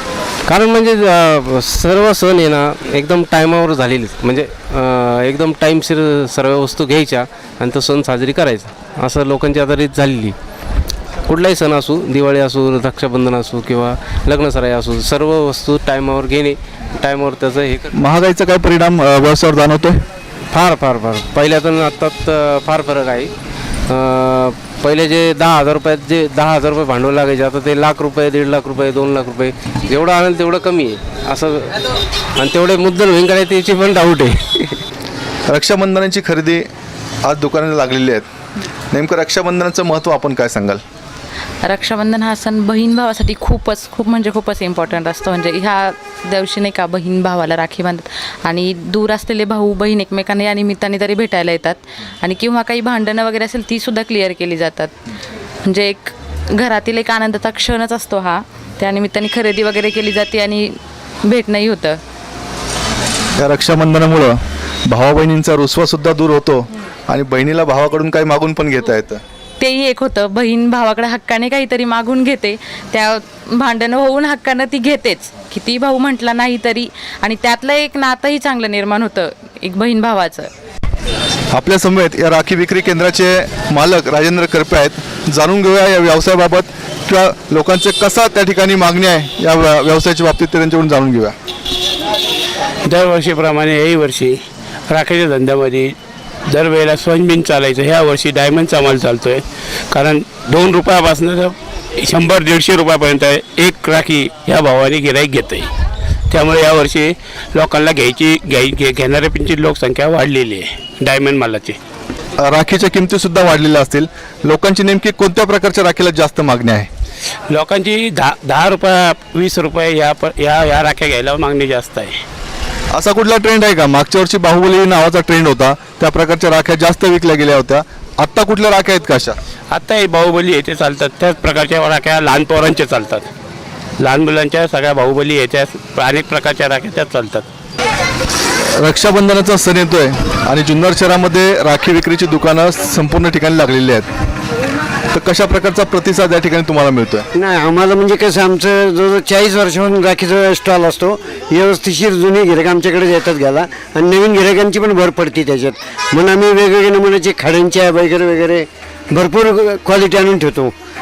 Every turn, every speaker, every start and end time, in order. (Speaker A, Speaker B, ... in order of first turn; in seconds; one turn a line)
Speaker A: 0.5-10.3
Speaker A: 11.3-18.0
Speaker B: 17.9-20.0
Speaker A: 20.5-23.3
Speaker A: 23.9-31.8
Speaker A: 32.4-34.8
Speaker B: 35.5-36.7
Speaker B: 37.2-38.2
Speaker B: 38.9-40.8
Speaker C: 41.6-54.9
Speaker C: 55.6-62.0
Speaker B: 63.4-69.2
Speaker C: 69.6-80.5
Speaker B: 81.5-91.3
Speaker D: 92.8-94.4
Speaker D: 94.9-95.9
Speaker D: 96.5-105.7
Speaker D: 106.3-111.8
Speaker B: 112.4-116.9
Speaker D: 117.5-122.2
Speaker B: 122.9-129.4
Speaker D: 129.7-133.3
Speaker D: 134.0-137.5
Speaker B: 138.8-144.1
Speaker B: 145.1-147.2
Speaker E: 147.3-160.7